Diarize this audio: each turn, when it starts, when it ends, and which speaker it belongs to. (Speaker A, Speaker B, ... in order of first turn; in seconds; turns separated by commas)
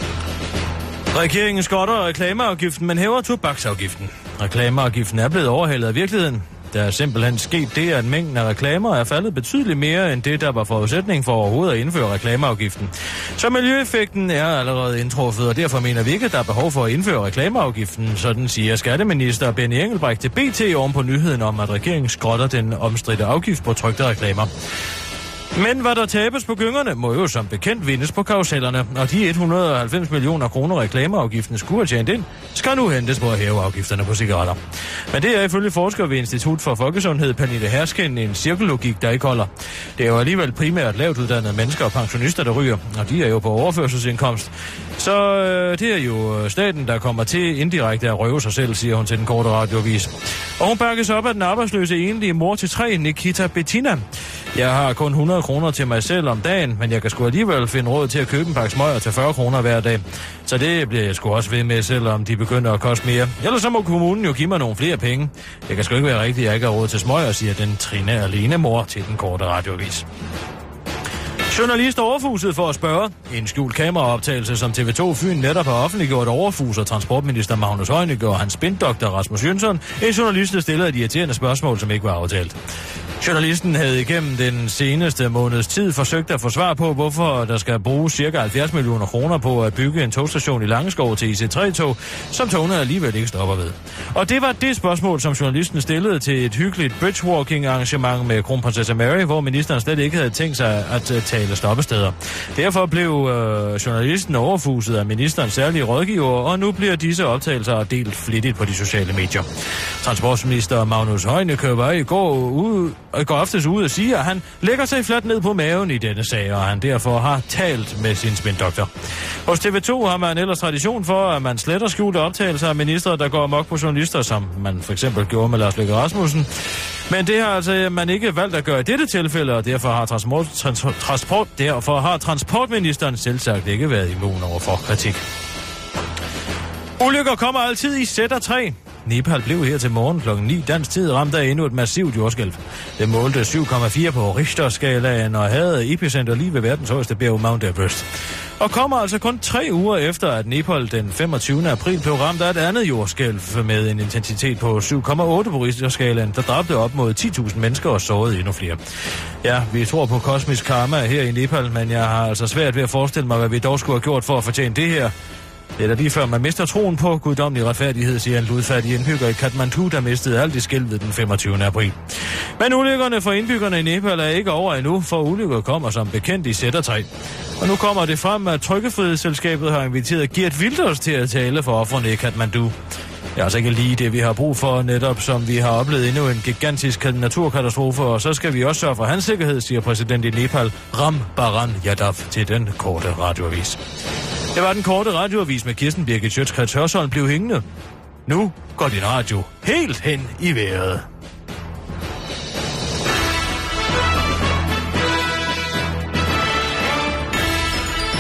Speaker A: 1.1-24.5, Speaker A: 25.5-34.6, Speaker A: 35.1-70.1, Speaker A: 71.5-82.6, Speaker A: 83.2-109.5, Speaker A: 110.0-118.9, Speaker A: 119.5-126.5, Speaker A: 127.1-135.2, Speaker A: 137.0-148.1, Speaker A: 148.6-158.8, Speaker A: 159.4-165.1, Speaker A: 165.8-177.1, Speaker A: 177.6-182.8, Speaker A: 183.3-193.8, Speaker A: 194.5-197.7, Speaker A: 198.3-201.1